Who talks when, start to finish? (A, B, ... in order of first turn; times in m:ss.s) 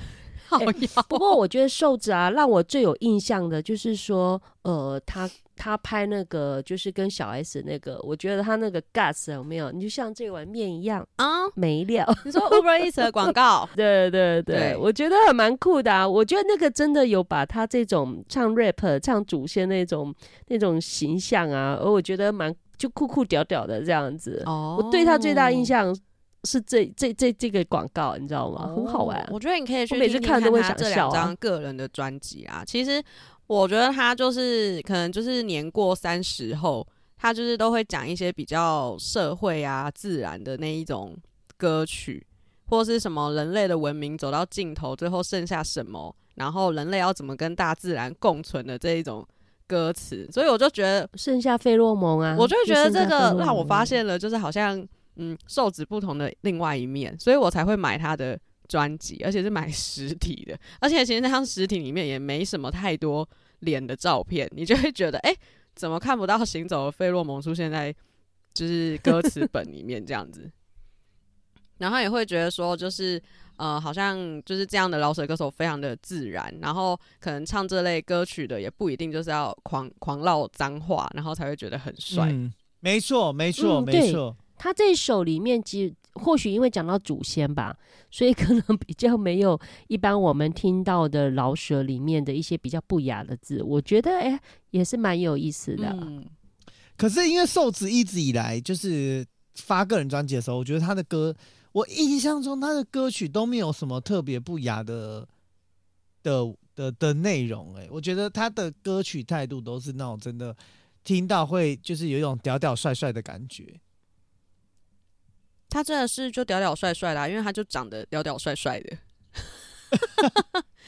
0:00.5-0:01.3 A
0:00.6-0:12.6 B
0:11.2-0:11.5 A
0:12.2-0:13.7 A
0:13.3-0:29.3 B
0:14.5-0:14.8 A
0:24.4-0:25.7 A
0:28.6-0:51.1 A
0:29.9-0:31.3 B
0:51.1-0:54.0 B
0:52.4-1:08.0 A
1:08.5-1:10.5 A
1:11.8-1:22.4 A
1:22.1-1:24.4 C
1:23.6-1:36.1 B
1:35.8-1:36.3 A
1:37.0-1:45.3 C
1:46.2-1:53.8 C
1:55.7-1:59.0 A
2:00.0-2:00.6 A